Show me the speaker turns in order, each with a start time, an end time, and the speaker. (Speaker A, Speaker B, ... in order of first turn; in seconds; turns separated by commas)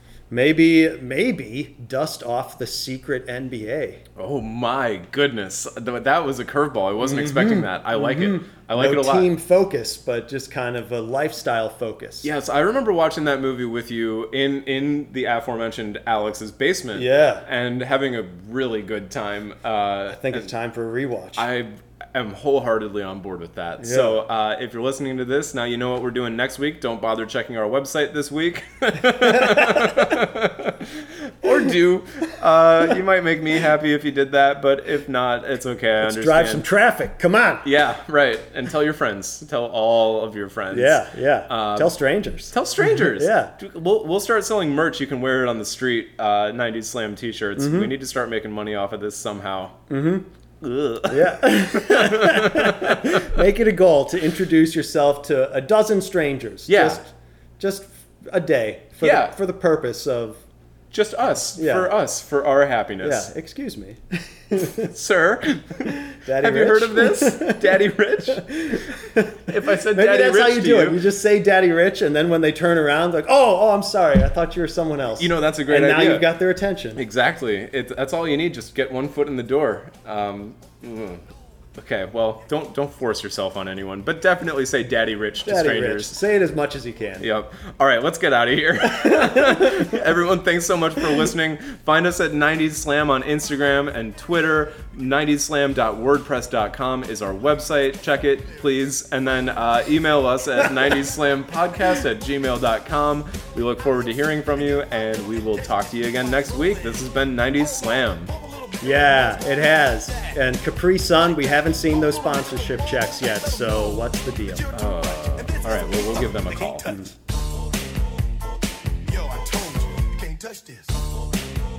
Speaker A: 0.3-4.0, Speaker B: 4.2-9.3, Speaker A: 7.0-12.3, Speaker B: 12.2-20.5, Speaker A: 16.9-17.4, Speaker A: 20.1-21.4, Speaker B: 21.4-36.6, Speaker A: 23.8-24.1, Speaker A: 29.2-30.0, Speaker A: 36.0-37.6, Speaker B: 37.6-41.9, Speaker A: 40.7-43.5, Speaker B: 42.5-49.8, Speaker A: 47.6-47.9, Speaker A: 49.9-50.3, Speaker B: 50.6-53.4, Speaker A: 51.1-60.4, Speaker B: 56.7-57.0, Speaker B: 59.0-59.3, Speaker B: 60.9-63.3, Speaker A: 61.5-61.9, Speaker A: 63.0-64.9, Speaker B: 64.6-68.8, Speaker A: 66.1-67.7, Speaker A: 68.3-77.0, Speaker B: 69.5-71.0, Speaker B: 75.2-76.2, Speaker B: 77.0-81.2, Speaker B: 81.8-86.1, Speaker A: 85.4-87.3, Speaker B: 87.2-108.3, Speaker A: 88.8-90.0, Speaker C: 104.6-105.5, Speaker C: 106.2-110.5, Speaker A: 108.8-114.7, Speaker C: 111.1-117.9, Speaker B: 114.7-117.0, Speaker C: 119.0-121.5